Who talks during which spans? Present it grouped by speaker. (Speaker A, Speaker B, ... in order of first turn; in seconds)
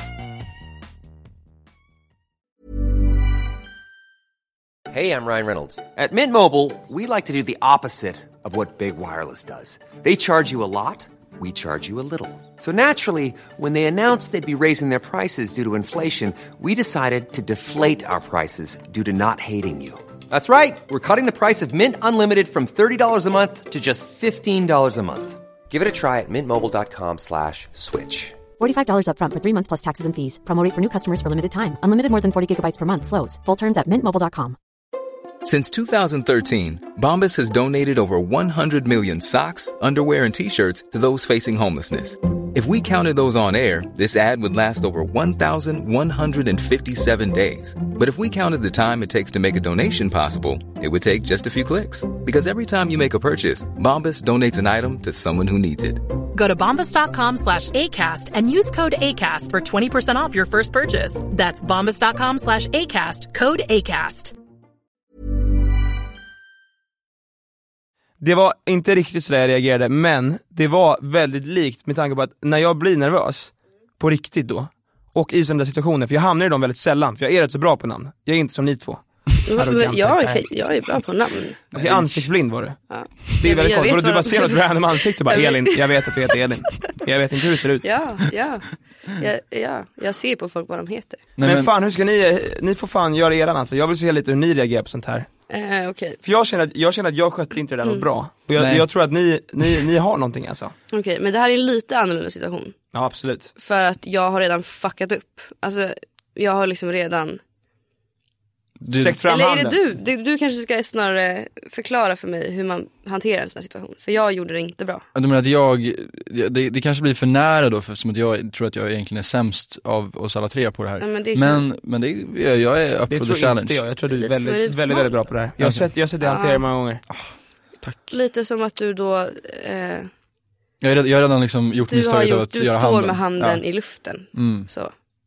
Speaker A: 4.9-28.4
Speaker B: 28.6-34.5
Speaker C: 35.4-56.0
Speaker D: 56.3-64.3
Speaker E: 68.2-80.5, 81.7-87.9, 91.4-95.3, 96.2-100.7, 102.9-103.5, 108.9-109.8, 123.1-127.0
Speaker F: 79.5-81.6, 82.9-86.1, 87.8-91.2, 95.5-96.2, 100.9-102.8, 103.6-107.4, 109.2-115.0, 121.0-121.7, 124.1-125.2, 126.2-126.6, 128.1-130.1, 131.9-134.9
Speaker G: 81.7-82.3, 91.4-91.7, 98.5-98.8, 108.8-109.2, 115.1-123.8, 125.6-125.9, 127.8-128.2, 130.8-133.6, 134.3-134.7